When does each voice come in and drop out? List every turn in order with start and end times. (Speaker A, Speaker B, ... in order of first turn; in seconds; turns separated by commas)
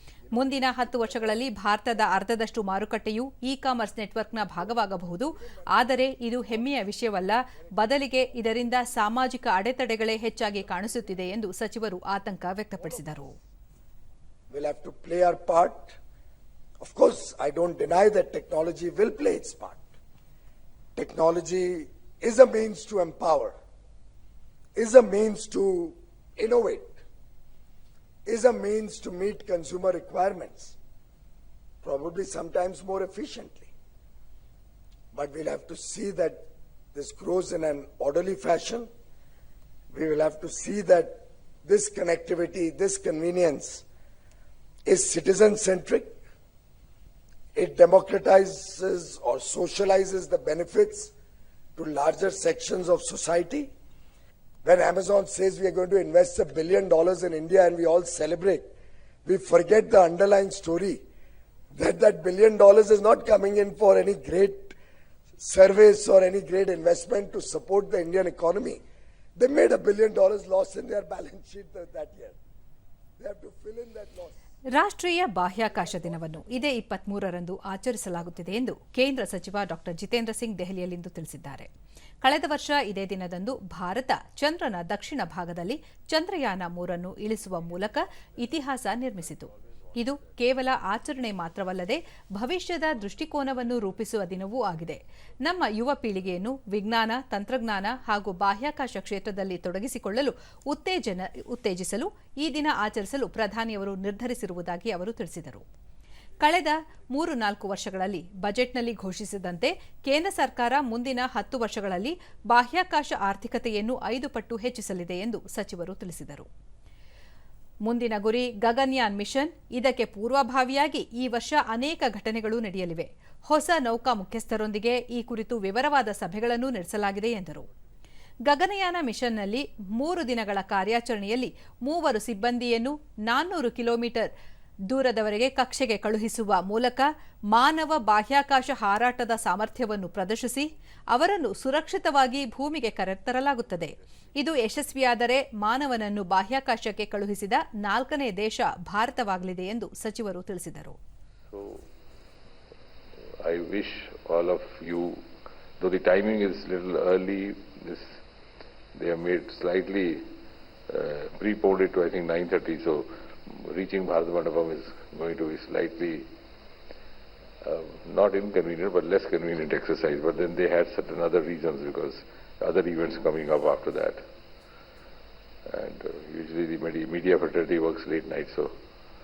Speaker A: 0.3-1.4, Speaker B: 0.3-13.3, Speaker A: 5.3-5.8, Speaker A: 10.5-11.2, Speaker A: 12.8-13.0, Speaker A: 14.5-16.0, Speaker A: 16.8-19.8, Speaker A: 20.9-23.5, Speaker A: 24.7-27.0, Speaker A: 28.2-30.7, Speaker A: 31.8-33.7, Speaker A: 35.1-36.4, Speaker A: 36.9-38.9, Speaker A: 39.9-43.8, Speaker A: 44.9-46.1, Speaker A: 47.5-51.1, Speaker A: 51.8-53.7, Speaker A: 54.6-58.6, Speaker A: 59.2-61.0, Speaker A: 61.7-64.7, Speaker A: 65.4-68.8, Speaker A: 69.3-72.4, Speaker A: 73.2-74.3, Speaker B: 74.7-81.7, Speaker A: 75.6-76.3, Speaker B: 82.2-105.7, Speaker B: 106.4-116.5, Speaker B: 117.8-127.7, Speaker B: 128.4-134.3, Speaker B: 134.9-151.0, Speaker C: 151.5-151.8, Speaker C: 153.4-155.2, Speaker C: 155.8-158.2, Speaker C: 158.9-160.3, Speaker C: 160.9-166.3, Speaker C: 167.6-174.2, Speaker C: 175.7-178.8